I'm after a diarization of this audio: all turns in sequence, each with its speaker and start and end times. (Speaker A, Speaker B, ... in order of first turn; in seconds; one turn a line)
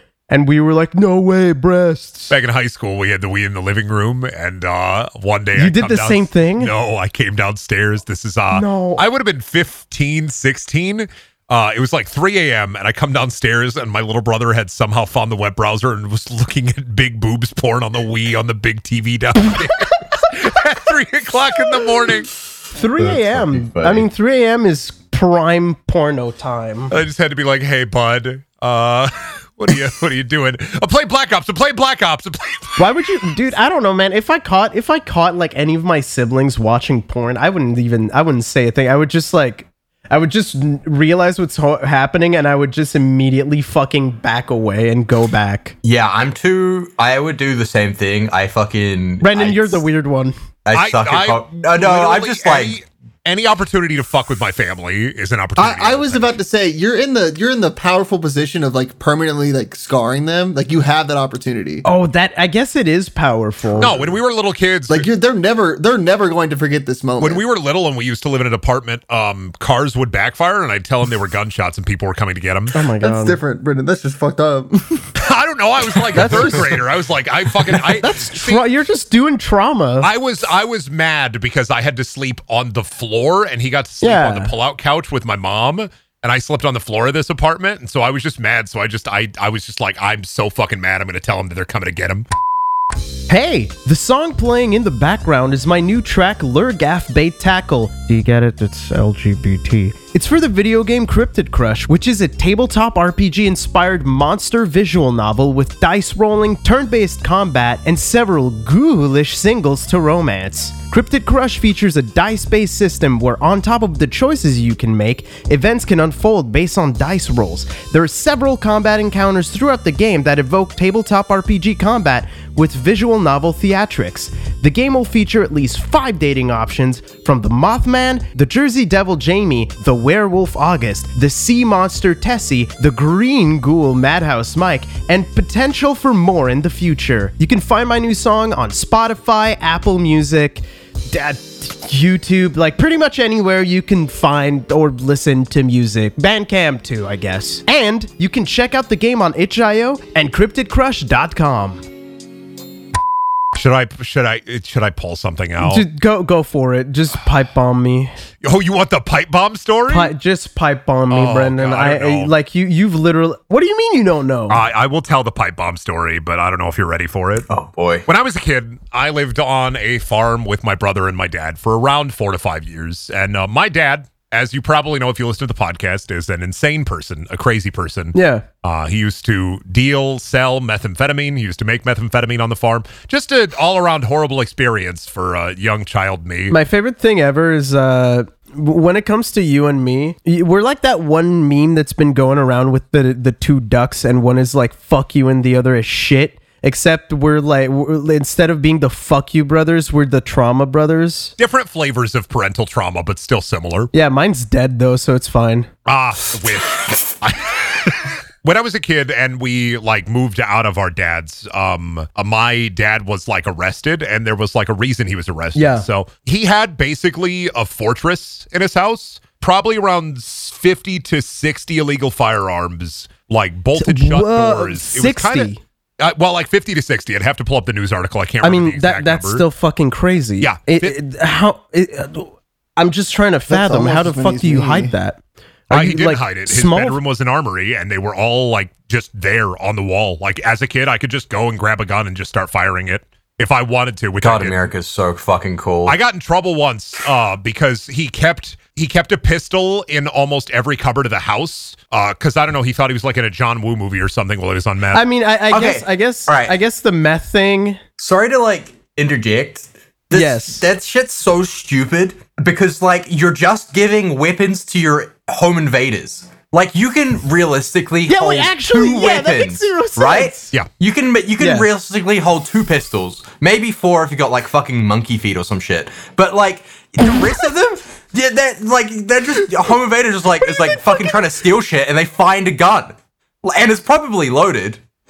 Speaker A: 0.3-2.3
Speaker B: 2.3-22.3
Speaker A: 5.5-6.7
Speaker A: 8.5-9.0
Speaker A: 22.7-26.9
Speaker C: 23.0-24.1
Speaker B: 26.9-32.8
Speaker A: 32.8-45.7
Speaker C: 45.8-49.8
Speaker A: 49.2-50.4
Speaker C: 50.6-52.8
Speaker B: 50.7-56.4
Speaker D: 55.6-61.8
Speaker A: 61.9-64.0
Speaker D: 63.6-64.1
Speaker B: 63.8-65.0
Speaker D: 64.9-67.4
Speaker B: 67.2-72.8
Speaker A: 72.7-73.4
Speaker D: 73.0-75.1
Speaker B: 75.2-78.6
Speaker D: 76.1-76.6
Speaker A: 76.1-76.7
Speaker D: 77.6-78.3
Speaker A: 78.2-80.1
Speaker B: 80.0-92.3
Speaker A: 84.0-84.5
Speaker A: 93.3-151.8
Speaker B: 153.5-155.8
Speaker A: 155.6-158.1
Speaker B: 158.4-160.1
Speaker A: 159.9-164.6
Speaker B: 161.1-162.3
Speaker B: 164.5-167.5
Speaker C: 167.5-168.1
Speaker B: 168.1-186.6
Speaker A: 178.1-178.4
Speaker A: 186.5-201.3
Speaker B: 201.4-203.9
Speaker A: 203.9-205.7
Speaker B: 205.8-229.4
Speaker C: 206.8-207.1
Speaker A: 215.5-215.8
Speaker A: 223.8-225.6
Speaker A: 228.4-237.0
Speaker B: 230.4-230.9
Speaker D: 233.5-234.9
Speaker B: 235.7-244.6
Speaker C: 244.2-245.9
Speaker B: 245.8-255.0
Speaker A: 254.9-257.8
Speaker C: 255.5-256.5
Speaker C: 258.0-284.8
Speaker A: 260.1-260.6
Speaker A: 268.1-270.5
Speaker A: 271.4-271.7
Speaker A: 280.6-281.1